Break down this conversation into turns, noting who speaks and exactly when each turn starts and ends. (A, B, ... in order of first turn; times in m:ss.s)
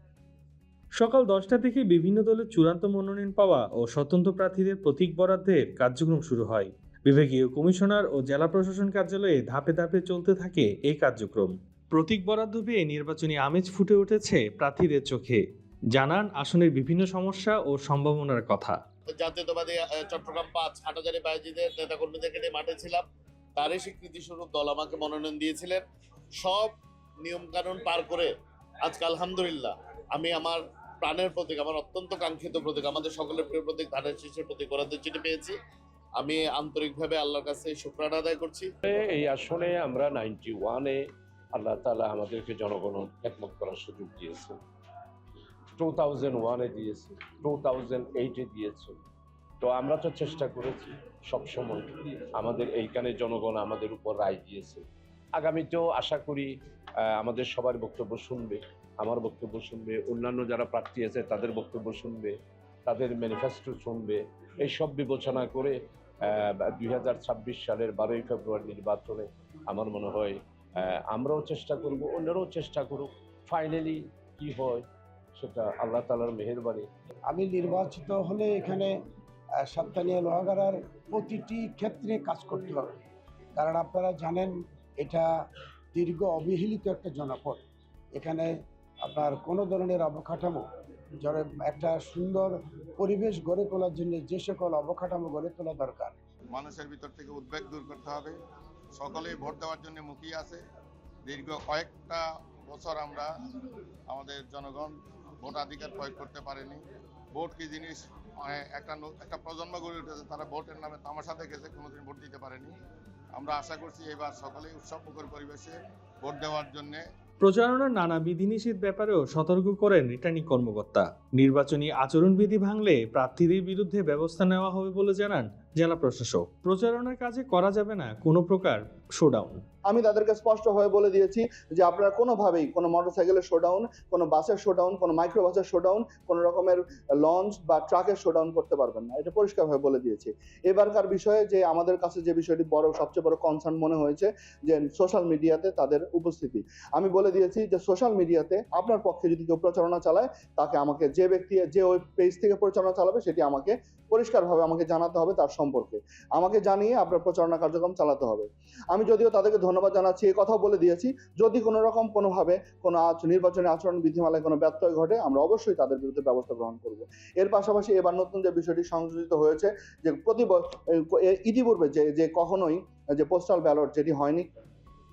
0:01.0-0:18.8 A
0:19.1-0:23.1 B
0:23.6-0:25.8 B
0:26.4-0:28.3 B
0:28.8-0:35.6 B
0:36.2-0:38.7 B
0:38.8-0:41.0 C
0:41.6-0:44.6 C
0:45.8-0:49.0 C
0:49.6-0:54.8 C
0:55.4-1:02.4 C
1:02.9-1:16.9 C
1:17.3-1:19.0 D
1:19.6-1:22.9 D
1:23.6-1:27.6 D
1:28.2-1:30.7 D
1:31.2-1:36.2 D
1:36.5-1:38.4 E
1:39.0-1:40.6 E
1:41.3-1:43.3 E
1:44.1-1:46.8 E
1:47.3-1:52.8 E
1:53.4-1:57.0 E
1:57.4-2:09.6 A
2:09.9-2:54.5 F